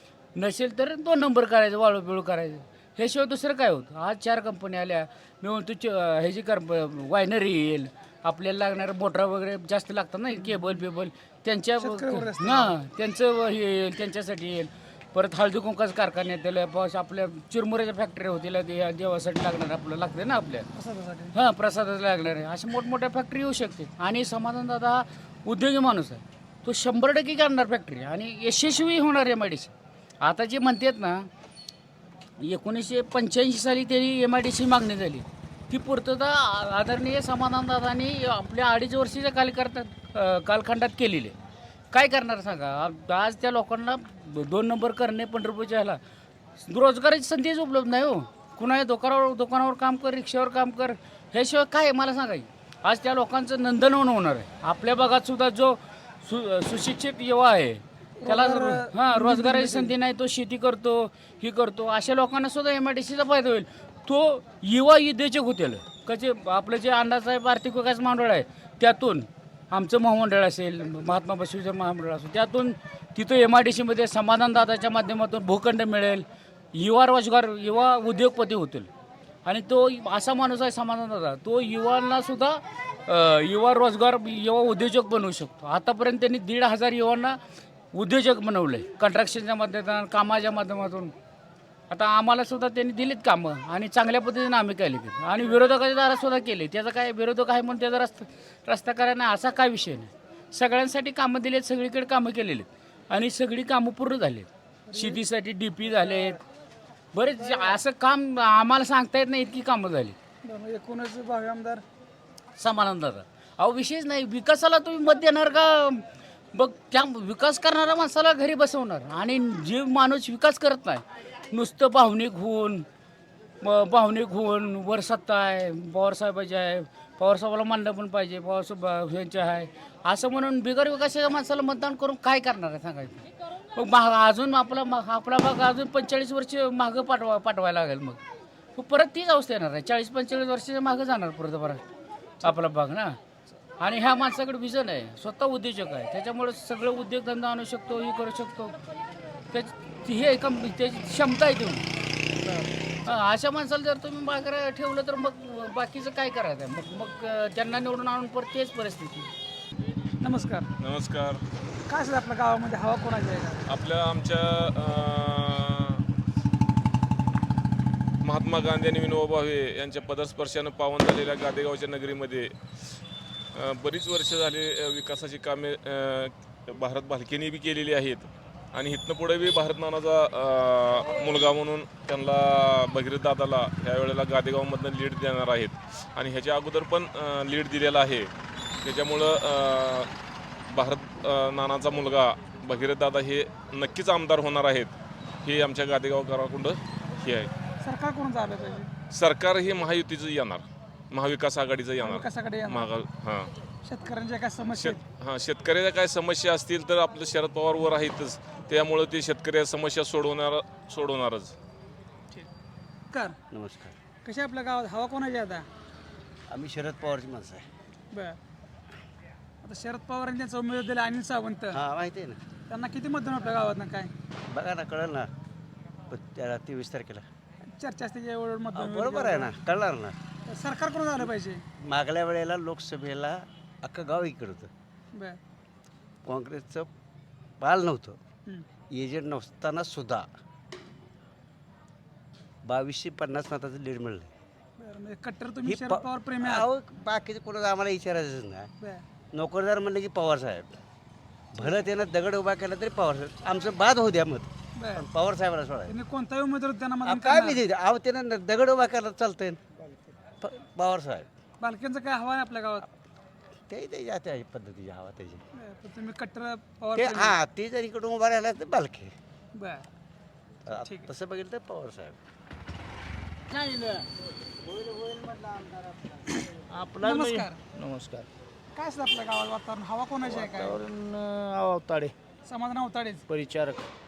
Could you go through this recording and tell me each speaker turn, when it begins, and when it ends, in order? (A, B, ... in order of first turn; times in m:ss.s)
0:00.3-0:20.7 A
0:11.8-0:12.7 B
0:20.7-0:21.3 B
0:21.3-0:29.7 A
0:30.2-0:31.3 A
0:32.4-0:41.3 A
0:41.9-0:46.0 A
0:46.6-1:18.9 A
0:58.2-0:59.9 B
1:19.4-1:27.4 A
1:27.9-1:31.1 A
1:31.9-1:46.4 A
1:44.9-1:45.2 B
1:47.1-1:50.2 A
1:47.4-1:47.7 B
1:50.4-1:51.8 B
1:52.6-2:02.8 A
2:03.6-2:18.2 A
2:18.8-2:21.8 A
2:22.4-2:23.2 A
2:23.8-2:28.8 A
2:29.5-2:31.8 A
2:33.0-2:39.3 A
2:40.2-2:40.7 B
2:40.8-2:41.4 C
2:41.9-2:43.6 B
2:43.7-2:46.0 C
2:48.2-2:52.5 C
2:53.6-3:08.3 C
3:08.8-3:10.1 C
3:10.7-3:17.5 C
3:17.8-3:18.9 B
3:19.1-3:23.5 C
3:22.0-3:22.9 B
3:23.8-3:25.0 B
3:24.6-3:31.5 C
3:33.5-3:33.9 D
3:34.2-3:35.6 B
3:36.5-3:37.6 D
3:39.6-3:41.8 B
3:41.8-3:42.4 D
3:42.7-3:44.1 B
3:44.5-3:45.3 D
3:46.1-3:47.2 D
3:47.7-3:49.5 B
3:48.7-3:50.1 D
3:50.5-3:51.6 B
3:51.9-3:54.7 D
3:56.3-3:56.9 D
3:57.6-3:58.2 D
3:58.9-4:00.2 D
4:02.6-4:04.3 D
4:04.8-4:06.7 B
4:06.5-4:08.7 D
4:09.3-4:10.8 D
4:11.6-4:14.5 D
4:14.8-4:15.1 B
4:15.2-4:15.9 D
4:15.8-4:17.6 B
4:17.0-4:19.6 D
4:20.4-4:21.3 D
4:21.6-4:22.8 B
4:23.7-4:25.4 D
4:25.6-4:27.4 B
4:27.0-4:29.1 D
4:29.5-4:29.8 B
4:30.7-4:32.2 D
4:30.8-4:31.1 B
4:36.7-4:38.3 E
4:37.0-4:37.6 B
4:38.8-4:40.7 B
4:40.3-4:42.1 E
4:42.4-4:43.2 B
4:43.3-4:43.9 E